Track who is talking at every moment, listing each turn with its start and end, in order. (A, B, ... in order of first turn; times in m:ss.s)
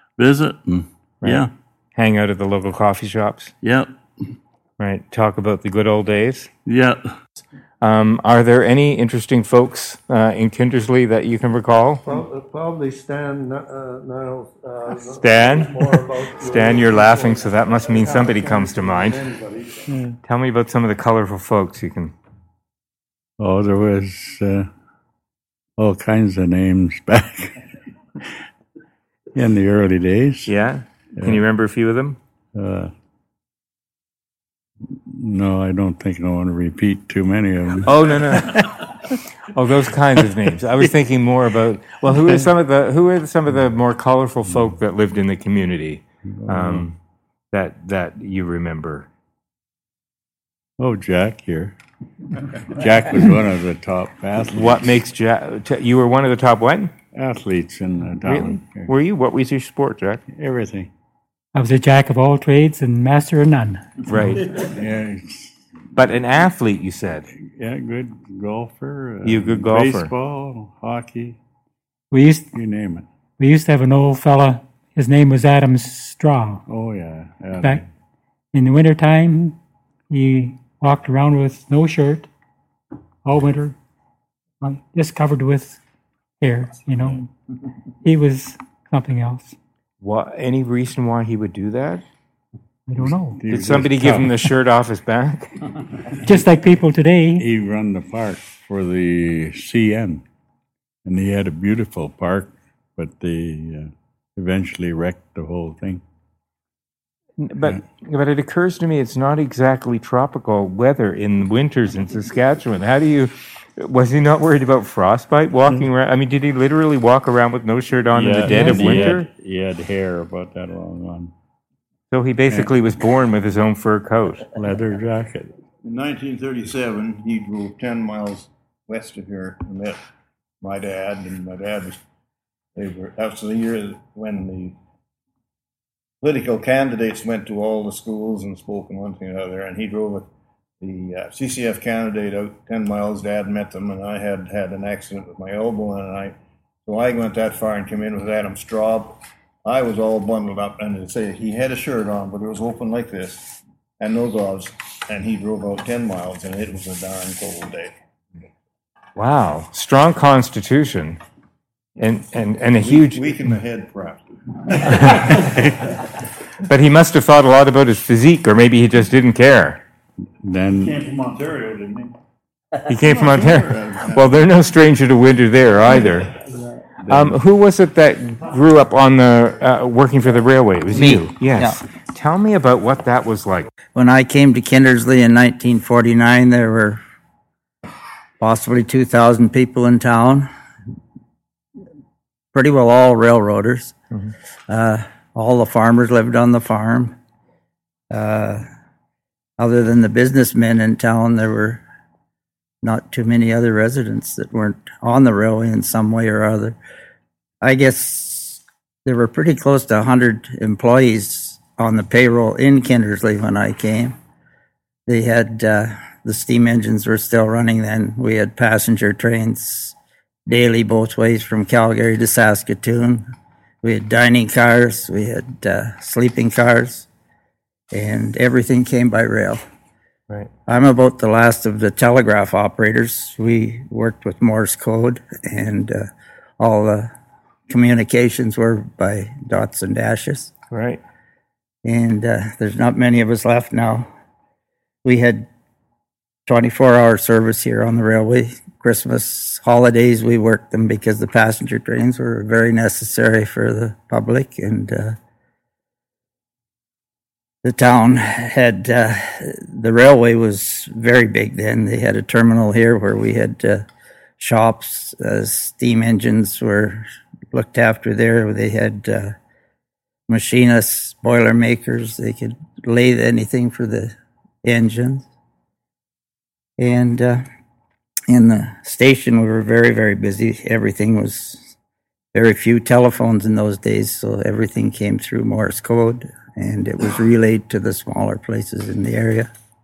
0:00.2-0:01.5 A
0:01.2-0:03.5 B
0:03.6-0:04.2 A
0:04.8-0:06.5 B
0:06.6-0:07.1 A
0:07.8-0:12.0 B
0:12.0-0:19.9 C
0:15.1-0:19.2 B
0:20.2-0:22.1 B
0:23.4-0:24.7 D
0:25.8-0:27.6 D
0:29.3-0:30.5 D
0:30.4-0:32.2 B
0:31.2-0:31.4 D
0:32.5-0:32.9 D
0:34.9-0:38.7 D
0:37.8-0:38.7 B
0:39.5-0:47.0 B
0:46.3-0:46.8 D
0:47.5-0:49.1 B
0:50.8-0:51.8 D
0:52.6-0:55.0 D
0:54.5-0:56.9 B
0:57.1-0:58.9 D
0:58.2-1:00.2 B
1:00.3-1:00.9 D
1:01.5-1:03.9 E
1:04.1-1:04.4 B
1:04.7-1:05.6 D
1:05.9-1:07.3 B
1:07.4-1:11.4 D
1:09.2-1:10.1 B
1:12.1-1:12.5 E
1:12.5-1:13.0 D
1:13.4-1:16.6 E
1:16.7-1:17.8 D
1:17.6-1:17.8 E
1:18.5-1:19.6 E
1:20.1-1:22.3 E
1:23.2-1:23.8 E
1:24.6-1:25.8 E
1:26.4-1:27.3 E
1:28.0-1:29.6 E
1:30.0-1:32.0 B
1:32.9-1:33.4 E
1:33.0-1:34.4 D
1:33.5-1:35.5 B
1:36.2-1:37.4 E
1:37.4-1:40.2 D
1:41.0-1:46.0 D
1:47.4-1:59.3 B
1:58.1-2:01.3 D
2:02.1-2:04.4 B
2:04.5-2:05.6 D
2:05.8-2:10.0 F
2:10.6-2:12.0 F
2:12.8-2:14.7 F
2:16.2-2:20.2 F
2:20.8-2:26.3 F
2:26.8-2:37.9 F
2:39.2-2:41.2 B
2:42.0-2:43.5 B
2:42.8-2:45.2 F
2:44.9-2:45.4 B
2:46.7-2:49.8 B
2:50.4-2:51.2 D
2:52.9-2:56.3 B
2:53.0-2:54.4 D
2:57.0-2:57.4 D
2:57.1-3:03.7 B
3:00.9-3:01.8 G
3:03.9-3:07.0 G
3:08.4-3:10.5 G
3:12.5-3:13.9 G
3:14.7-3:17.1 G
3:18.1-3:18.6 G
3:19.6-3:21.8 G
3:22.8-3:26.8 G
3:27.6-3:34.2 G
3:35.1-3:39.9 G
3:40.5-3:43.3 G
3:43.8-3:47.1 G
3:47.9-3:49.6 G
3:50.7-3:56.1 G
3:56.6-3:57.1 G
3:57.7-4:00.5 G
4:00.7-4:01.0 B
4:01.8-4:04.1 G
4:05.0-4:05.5 G
4:06.5-4:15.2 G
4:17.6-4:23.8 G
4:24.4-4:29.3 G
4:30.3-4:35.3 G
4:36.8-4:37.4 G
4:38.3-4:41.7 G
4:42.3-4:49.5 G